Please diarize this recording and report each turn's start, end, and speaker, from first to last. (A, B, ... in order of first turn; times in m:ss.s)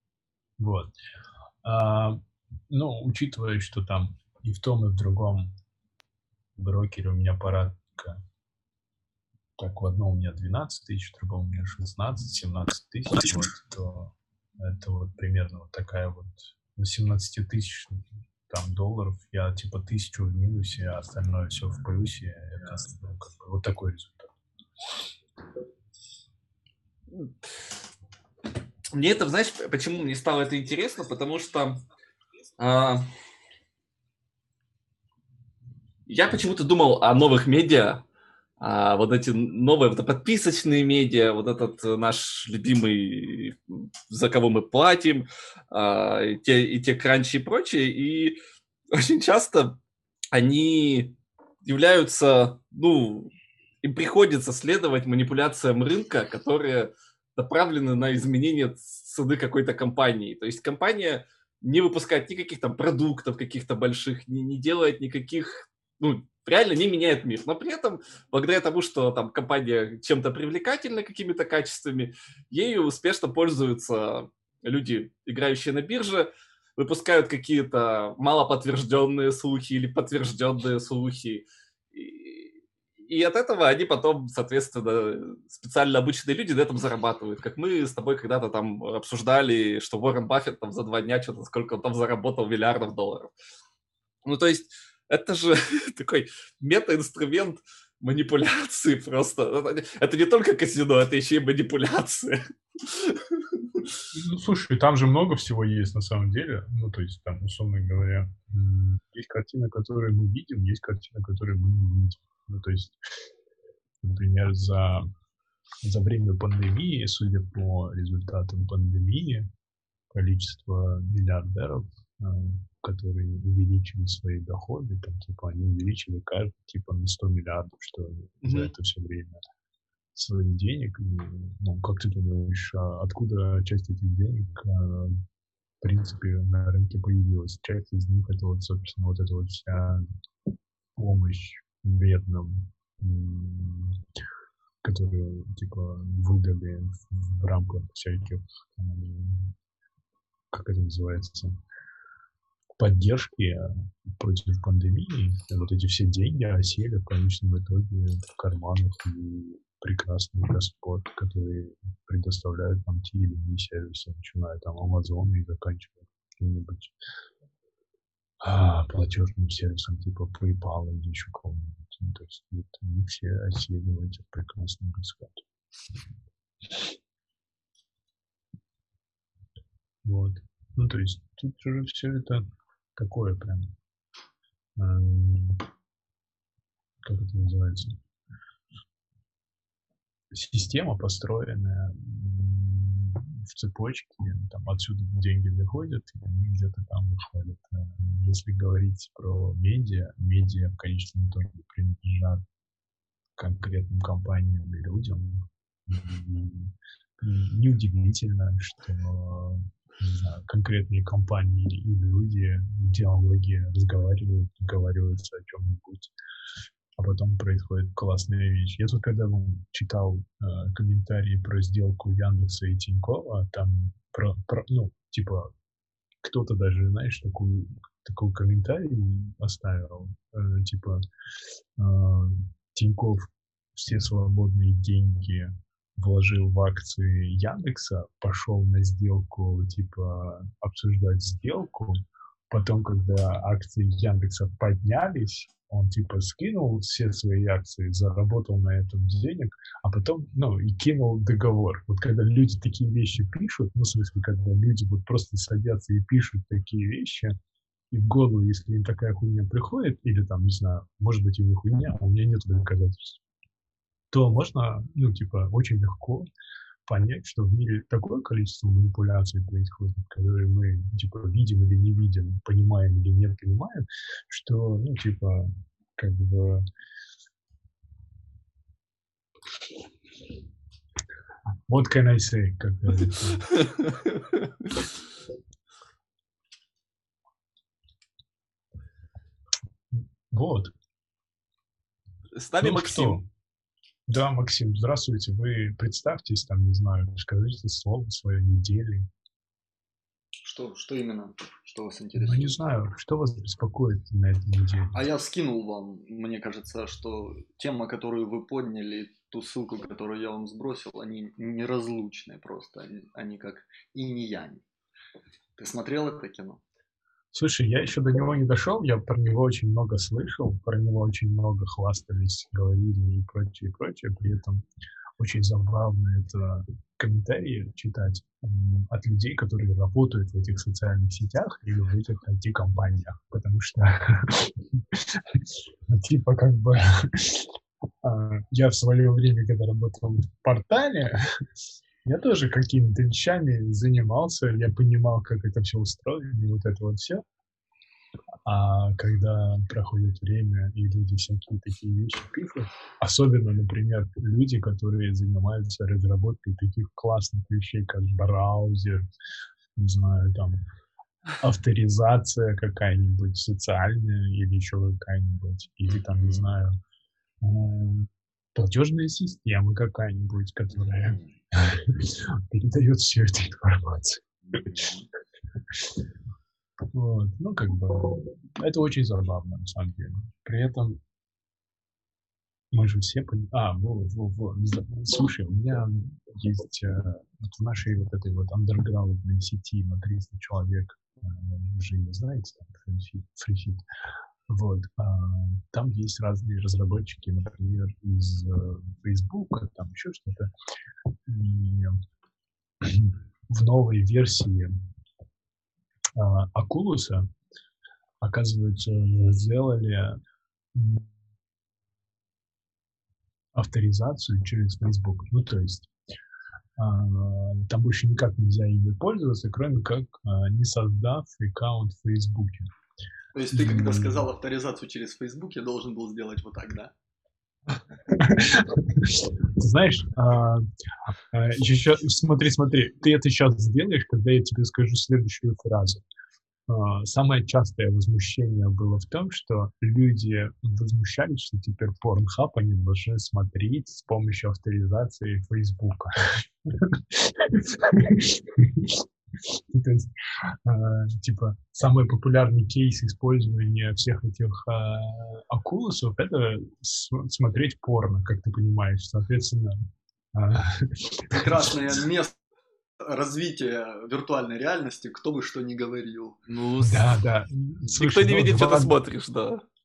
0:00.6-0:00.9 A
0:01.6-0:05.6 A
0:06.6-0:08.2 A
0:09.6-0:24.3 A
0:28.9-0:31.8 B
0:32.6-0:33.1 B
0:36.1-0:38.0 B
0:38.6-0:48.4 B
0:48.9-0:49.8 B
0:50.3-0:53.3 B
0:53.8-1:33.3 B
1:34.2-1:43.9 B
1:44.1-1:53.0 A
1:54.0-1:55.0 A
1:55.8-1:59.5 A
2:00.1-2:09.4 A
2:08.4-2:08.7 B
2:10.1-2:15.2 A
2:15.8-2:20.1 A
2:21.0-2:24.0 A
2:24.8-2:29.6 A
2:30.5-2:31.6 A
2:32.8-2:46.9 A
2:48.4-2:55.4 A
3:00.0-3:02.4 A
3:03.0-3:03.7 A
3:04.8-3:05.7 A
3:07.0-3:08.0 A
3:10.3-3:22.4 A
3:23.4-3:36.1 A
3:37.0-3:45.5 A
3:46.2-3:51.0 A
3:51.8-4:02.0 A
4:02.5-4:17.3 A
4:17.9-4:23.2 A
4:24.1-4:26.3 A
4:26.8-4:36.6 A
4:41.7-4:43.5 A
4:43.5-4:44.5 B
4:49.9-4:50.7 A
4:52.4-4:53.2 B
4:52.6-4:53.2 A
4:54.1-4:59.1 A
5:00.4-5:02.5 C
5:02.2-5:05.1 A
5:04.9-5:14.6 C
5:15.6-5:16.6 C
5:17.3-5:24.6 A
5:25.2-5:41.4 A
5:42.0-5:47.2 A
5:48.4-5:59.0 A
5:59.8-6:00.6 A
6:01.4-6:06.8 A
6:06.1-6:06.4 C
6:07.4-6:14.6 A
6:14.7-6:15.0 C
6:15.7-6:16.0 A
6:16.9-6:21.0 A
6:22.7-6:33.8 A
6:34.5-6:40.5 A
6:41.3-6:42.0 A
6:42.8-6:44.7 A
6:46.1-6:47.3 A
6:48.2-6:50.2 A
6:50.7-6:51.1 A
6:53.5-6:55.9 A
6:56.8-7:02.7 A
7:03.3-7:06.9 C
7:03.5-7:04.3 A
7:07.7-7:16.0 A
7:16.7-7:39.7 A
7:40.3-7:42.0 A
7:41.3-7:42.4 C
7:43.0-7:46.5 C
7:46.5-7:47.1 B
7:46.8-7:49.0 A
7:47.9-7:49.6 B